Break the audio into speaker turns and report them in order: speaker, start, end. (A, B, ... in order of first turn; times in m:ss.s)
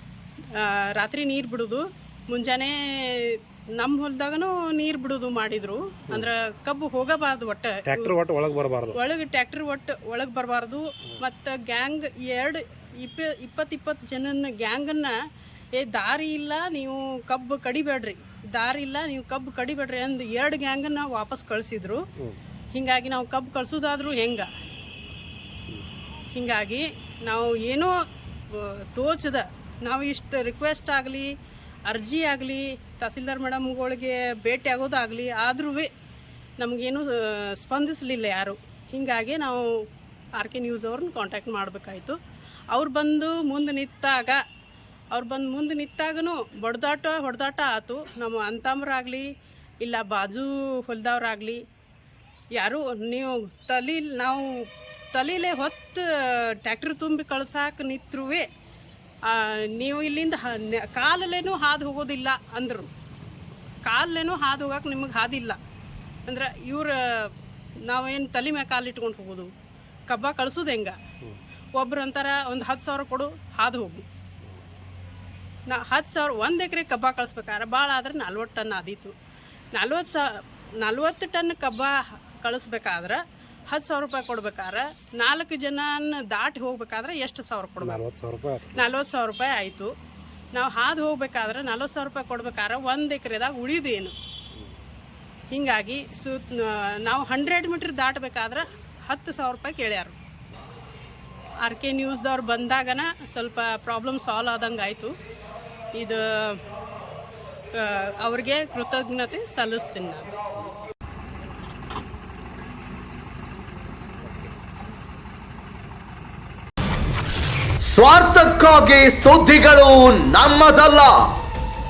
0:00.5-0:08.2 A
0:07.9-0:09.0 B
0:08.9-0:15.1 A
0:15.8-0:22.1 A
0:22.7-0:24.5 A
0:26.4-0:27.9 A
0:28.5-0:31.3 A
0:31.9-0:35.9 A
0:36.6-0:39.9 A
0:40.4-0:42.2 A
0:42.7-0:44.4 A
0:45.1-0:49.3 A
0:49.8-0:51.6 A
0:52.6-0:58.5 A
0:59.3-1:02.9 A
1:03.9-1:05.6 A
1:06.3-1:07.3 A
1:07.9-1:09.5 A
1:10.1-1:11.0 A
1:11.8-1:14.1 A
1:15.7-1:19.2 A
1:19.8-1:28.0 A
1:27.8-1:28.7 B
1:28.7-1:29.9 A
1:30.5-1:34.2 A
1:35.5-1:40.2 A
1:41.6-1:45.2 A
1:46.0-1:46.6 A
1:47.7-1:50.3 A
1:57.9-2:01.1 C